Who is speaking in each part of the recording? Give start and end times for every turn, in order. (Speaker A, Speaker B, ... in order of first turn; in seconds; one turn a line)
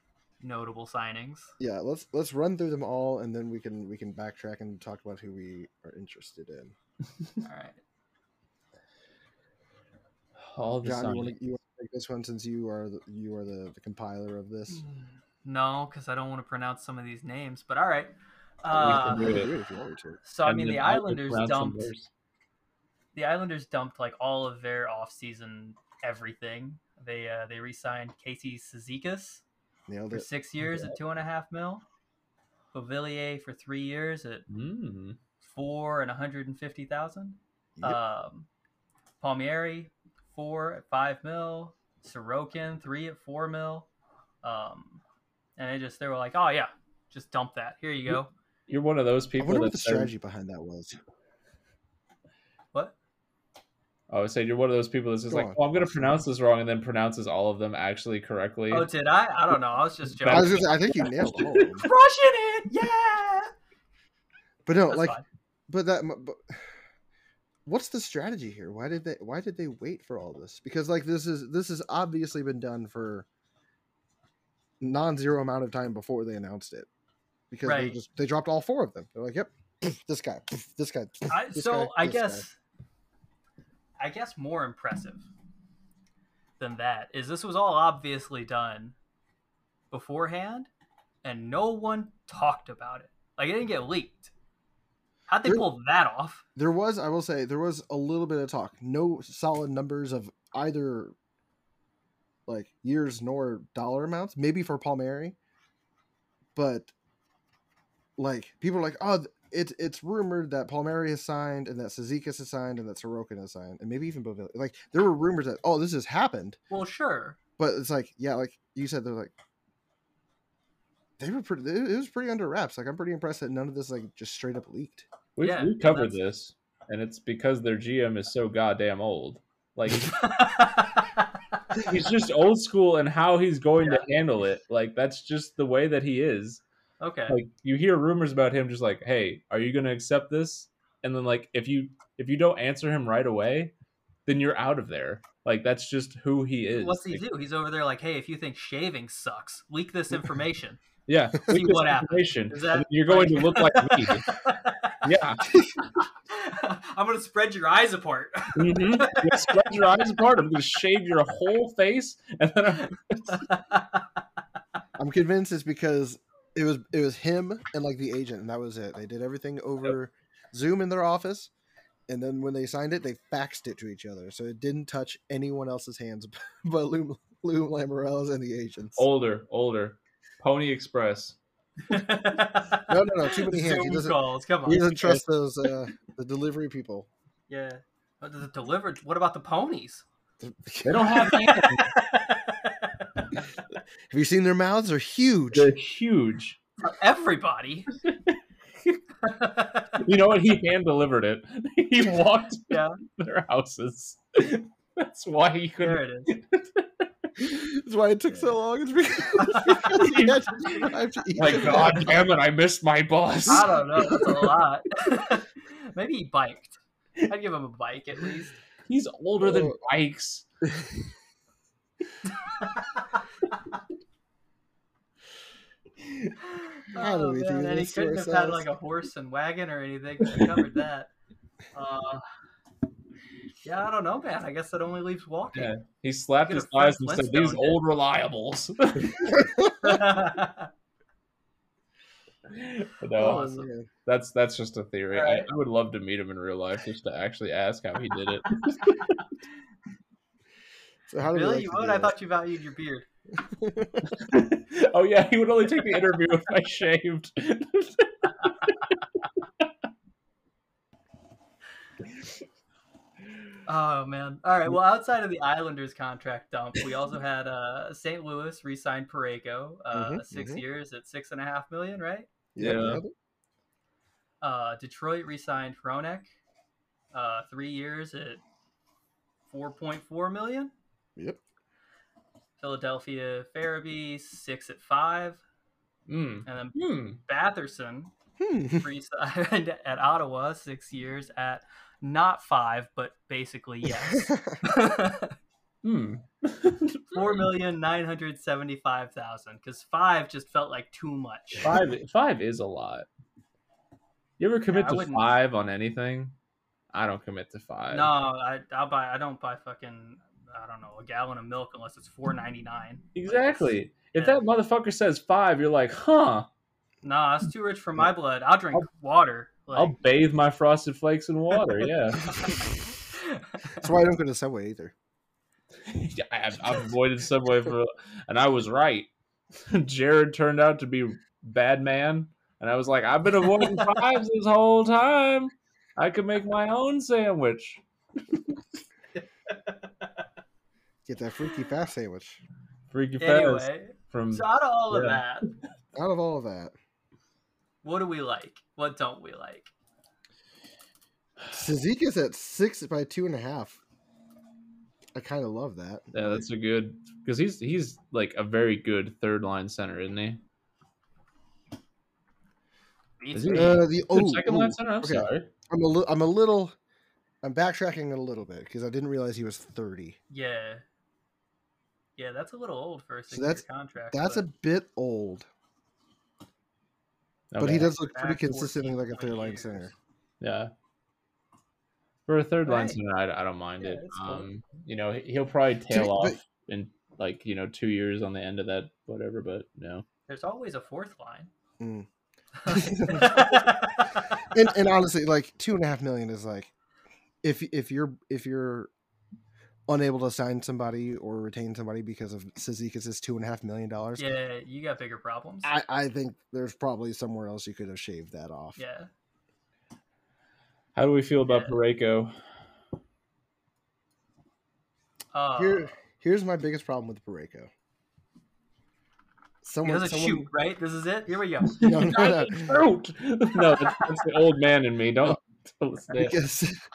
Speaker A: 0.4-1.5
Speaker B: 1.6-6.7
Speaker A: 7.4-7.8
Speaker C: 10.4-11.3
Speaker B: 10.8-14.8
Speaker A: 14.7-19.4
Speaker B: 18.7-20.2
Speaker C: 18.8-19.5
Speaker A: 20.2-21.9
Speaker C: 20.4-22.1
Speaker A: 23.1-29.4
Speaker B: 29.9-30.3
Speaker A: 30.1-31.8
Speaker C: 30.6-30.9
Speaker A: 32.7-34.4
Speaker C: 34.5-35.2
Speaker A: 35.4-38.5
Speaker A: 39.2-43.9
Speaker A: 44.4-45.0
Speaker A: 45.6-48.3
Speaker C: 48.7-50.1
Speaker B: 49.4-51.0
Speaker C: 54.1-58.9
Speaker B: 55.3-56.2
Speaker A: 58.7-63.5
Speaker C: 60.1-60.6
Speaker B: 60.3-61.9
Speaker B: 64.7-66.7
Speaker A: 64.9-65.2
Speaker B: 67.7-73.2
Speaker B: 74.8-76.9
Speaker B: 77.5-82.5
Speaker A: 77.6-78.0
Speaker A: 81.3-82.5
Speaker A: 84.0-85.3
Speaker A: 86.6-88.9
Speaker A: 89.9-90.7
Speaker A: 91.2-94.3
Speaker A: 95.3-96.4
Speaker B: 96.5-101.1
Speaker B: 102.5-105.3
Speaker B: 106.5-106.9
Speaker B: 108.2-116.6
Speaker A: 116.7-117.4
Speaker B: 117.6-119.3
Speaker B: 121.2-125.1
Speaker C: 125.3-130.3
Speaker A: 125.4-126.2
Speaker A: 130.1-131.6
Speaker C: 131.8-136.6
Speaker A: 133.8-134.1
Speaker A: 137.0-137.4
Speaker C: 137.3-143.7
Speaker C: 144.2-147.2
Speaker A: 146.7-150.8
Speaker C: 151.1-154.4
Speaker A: 151.5-155.0
Speaker C: 155.0-155.5
Speaker A: 156.3-159.9
Speaker C: 158.6-163.5
Speaker A: 163.3-164.1
Speaker B: 165.0-171.5
Speaker B: 172.1-179.1
Speaker C: 179.0-181.4
Speaker A: 181.9-185.2
Speaker B: 182.9-187.1
Speaker A: 187.5-190.0
Speaker B: 190.4-191.3
Speaker C: 190.8-192.0
Speaker A: 191.2-193.0
Speaker B: 194.1-195.7
Speaker C: 195.5-196.6
Speaker A: 196.8-197.9
Speaker C: 198.1-199.0
Speaker A: 199.2-200.0
Speaker C: 200.0-207.1
Speaker A: 202.7-203.0
Speaker A: 205.8-206.3
Speaker B: 207.4-212.1
Speaker A: 209.5-209.8
Speaker C: 209.7-214.5
Speaker A: 213.5-218.6
Speaker C: 218.8-220.4
Speaker B: 219.4-219.8
Speaker A: 222.3-223.2
Speaker A: 226.4-231.1
Speaker B: 226.9-228.7
Speaker C: 230.3-230.5
Speaker A: 231.7-232.2
Speaker A: 233.6-235.7
Speaker C: 235.5-239.4
Speaker A: 236.4-237.8
Speaker B: 239.3-239.9
Speaker A: 239.8-240.7
Speaker C: 242.5-249.2
Speaker A: 243.2-243.7
Speaker B: 243.2-243.9
Speaker A: 245.1-245.5
Speaker B: 251.1-252.1
Speaker A: 251.3-253.1
Speaker B: 253.4-254.2
Speaker C: 254.1-259.0
Speaker A: 263.6-272.3
Speaker B: 269.9-270.6
Speaker B: 272.5-273.1
Speaker C: 272.6-273.0
Speaker A: 274.4-276.3
Speaker A: 277.1-278.4
Speaker A: 279.5-280.7
Speaker A: 282.6-285.4
Speaker C: 286.1-287.2
Speaker A: 286.4-288.1
Speaker B: 288.4-288.9
Speaker A: 288.8-295.4
Speaker B: 294.1-294.6
Speaker C: 295.8-297.4
Speaker A: 297.1-301.8
Speaker C: 301.6-303.1
Speaker C: 304.4-306.3
Speaker A: 304.7-305.3
Speaker C: 306.9-308.1
Speaker A: 307.9-314.4
Speaker C: 313.1-316.5
Speaker A: 317.0-319.9
Speaker C: 319.7-322.6
Speaker A: 322.3-323.8
Speaker B: 323.8-324.9
Speaker C: 325.9-338.6
Speaker B: 341.1-342.4
Speaker C: 342.9-345.2
Speaker A: 343.2-345.4
Speaker B: 345.9-346.7
Speaker A: 347.8-349.7
Speaker B: 351.5-353.8
Speaker B: 355.1-356.4
Speaker C: 356.1-360.4
Speaker A: 363.2-363.9
Speaker C: 363.3-365.5
Speaker B: 363.5-366.7
Speaker B: 367.4-370.2
Speaker A: 370.3-370.8
Speaker A: 372.2-374.4
Speaker B: 373.3-375.5
Speaker C: 377.5-377.9
Speaker B: 377.6-379.9
Speaker A: 377.7-379.9
Speaker C: 380.4-380.7
Speaker C: 382.3-390.0
Speaker A: 382.6-383.0
Speaker A: 383.8-384.5
Speaker B: 385.9-386.4
Speaker A: 390.3-391.5
Speaker B: 391.8-392.1
Speaker A: 392.6-394.4
Speaker B: 392.7-393.6
Speaker B: 394.3-396.7
Speaker B: 397.4-398.9
Speaker B: 399.9-404.2
Speaker A: 404.2-405.7
Speaker B: 405.6-408.8
Speaker A: 408.8-409.1
Speaker C: 410.9-412.4
Speaker A: 411.4-411.7
Speaker A: 415.3-415.9
Speaker B: 415.6-417.7
Speaker B: 419.6-420.5
Speaker A: 419.8-422.1
Speaker C: 421.7-426.4
Speaker B: 421.8-422.8
Speaker A: 423.6-424.1
Speaker B: 426.1-426.8